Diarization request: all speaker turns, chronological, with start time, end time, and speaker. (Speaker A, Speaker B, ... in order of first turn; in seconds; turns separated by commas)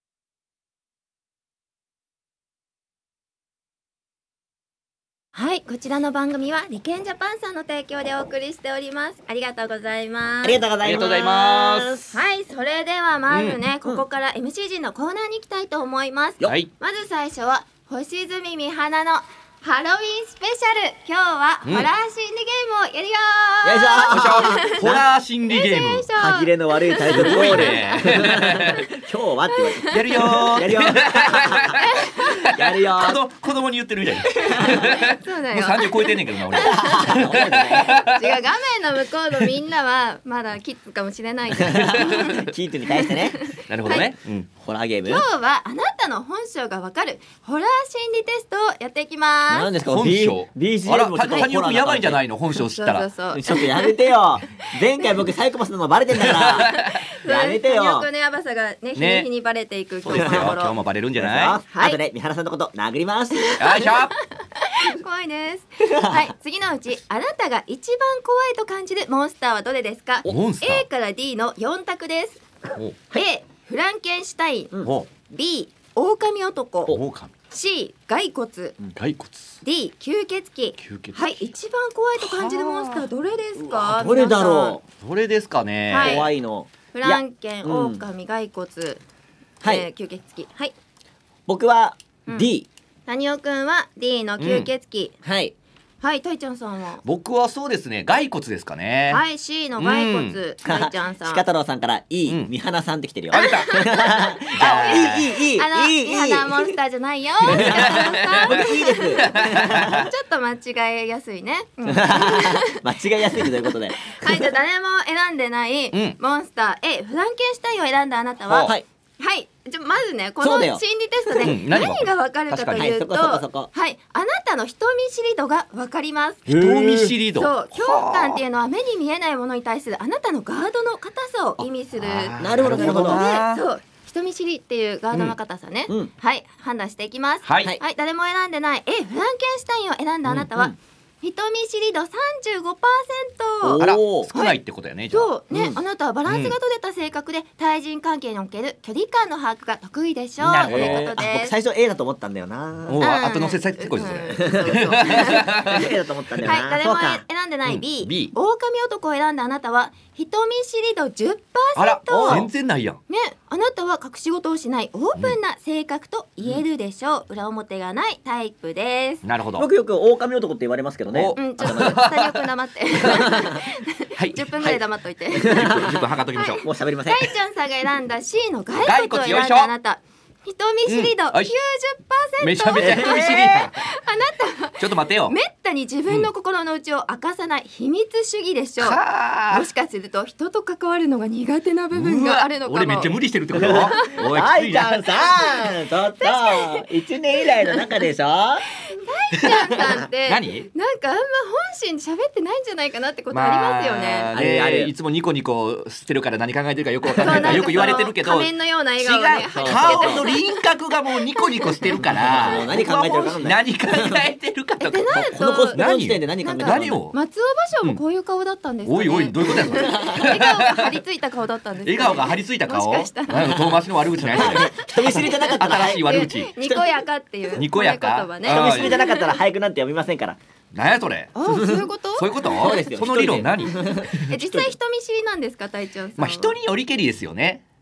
Speaker A: 5.3-10.6, Speaker B: 10.4-12.1, Speaker C: 10.8-12.1, Speaker A: 12.1-24.8, Speaker C: 13.3-13.6, Speaker C: 16.4-16.7, Speaker B: 23.6-25.1, Speaker C: 24.1-26.1, Speaker A: 25.5-28.9, Speaker B: 26.2-31.8, Speaker C: 27.1-28.8, Speaker A: 29.5-30.6, Speaker C: 29.9-38.1, Speaker A: 31.8-32.4, Speaker B: 32.5-33.2, Speaker B: 34.4-34.8, Speaker A: 34.4-44.1, Speaker B: 36.6-38.0, Speaker B: 41.6-43.4, Speaker C: 43.7-44.5, Speaker B: 44.6-45.2, Speaker A: 45.0-49.7, Speaker B: 49.5-52.2, Speaker C: 49.9-53.1, Speaker A: 52.7-55.1, Speaker B: 53.3-58.1, Speaker C: 56.2-57.0, Speaker A: 56.8-60.8, Speaker C: 59.0-59.3, Speaker C: 60.0-61.6, Speaker B: 60.1-60.5, Speaker B: 61.2-63.8, Speaker A: 61.7-62.0, Speaker A: 63.4-72.5, Speaker C: 63.6-64.2, Speaker B: 65.9-66.3, Speaker C: 70.2-70.8, Speaker A: 73.1-74.7, Speaker A: 75.3-77.0, Speaker C: 76.9-77.3, Speaker A: 77.5-78.8, Speaker C: 78.9-79.6, Speaker A: 79.6-84.8, Speaker C: 80.8-81.5, Speaker C: 82.2-83.0, Speaker B: 83.6-84.8, Speaker C: 85.0-86.2, Speaker A: 85.9-86.2, Speaker B: 86.0-88.0, Speaker A: 86.9-89.0, Speaker B: 89.6-89.9, Speaker A: 89.6-90.7, Speaker B: 91.5-92.7, Speaker A: 93.1-95.2, Speaker C: 94.4-94.7, Speaker B: 95.2-95.5, Speaker A: 96.0-97.0, Speaker C: 97.0-99.2, Speaker A: 99.1-101.4, Speaker C: 99.8-100.4, Speaker B: 100.7-106.7, Speaker C: 103.3-103.7, Speaker A: 103.3-112.8, Speaker C: 104.6-105.3, Speaker B: 107.5-110.1, Speaker C: 107.5-108.5, Speaker C: 109.3-110.1, Speaker B: 111.9-114.5, Speaker A: 113.4-126.5, Speaker C: 118.5-118.7, Speaker B: 120.4-120.8, Speaker C: 121.4-122.9, Speaker B: 122.7-123.7, Speaker C: 126.5-128.4, Speaker B: 126.5-127.2, Speaker A: 127.3-144.6, Speaker C: 132.0-133.6, Speaker B: 132.4-133.2, Speaker C: 137.4-137.8, Speaker B: 140.4-140.8, Speaker B: 143.6-144.3, Speaker C: 143.8-145.3, Speaker A: 145.1-151.6, Speaker B: 145.5-145.8, Speaker C: 146.3-146.5, Speaker C: 150.4-151.1, Speaker B: 150.6-153.1, Speaker C: 152.9-155.9, Speaker A: 153.0-155.5, Speaker B: 154.4-157.2, Speaker A: 156.4-162.5, Speaker C: 157.7-158.3, Speaker C: 161.8-163.0, Speaker B: 162.1-162.5, Speaker A: 163.1-169.2, Speaker C: 169.2-169.7, Speaker B: 169.6-172.0, Speaker C: 171.1-172.4, Speaker A: 171.3-193.1, Speaker C: 173.0-173.2, Speaker B: 173.1-173.6, Speaker C: 174.2-174.5, Speaker B: 175.3-176.0, Speaker C: 175.5-176.6, Speaker B: 176.6-177.3, Speaker C: 178.8-179.7, Speaker C: 180.9-181.5, Speaker C: 182.4-183.8, Speaker B: 182.8-183.7, Speaker C: 184.8-185.4, Speaker C: 188.8-189.7, Speaker C: 191.9-195.0, Speaker B: 193.5-198.7, Speaker A: 193.7-194.2, Speaker A: 196.2-196.9, Speaker A: 197.4-197.8, Speaker A: 198.8-204.3, Speaker B: 199.3-199.8, Speaker C: 200.3-200.7, Speaker C: 203.3-217.2, Speaker B: 204.3-204.9, Speaker B: 207.1-207.8, Speaker A: 207.2-210.6, Speaker B: 209.5-210.2, Speaker A: 211.3-212.7, Speaker B: 211.9-214.2, Speaker A: 214.8-215.8, Speaker B: 215.1-217.0, Speaker A: 216.4-223.6, Speaker C: 218.8-220.9, Speaker B: 219.7-220.2, Speaker C: 221.8-226.8, Speaker B: 223.3-226.3, Speaker A: 224.4-229.4, Speaker C: 227.5-229.0, Speaker B: 228.4-230.4, Speaker C: 230.7-231.3, Speaker A: 231.3-232.7, Speaker B: 231.5-231.8, Speaker C: 232.2-234.3, Speaker B: 232.5-234.7, Speaker A: 234.3-236.6, Speaker C: 236.2-237.6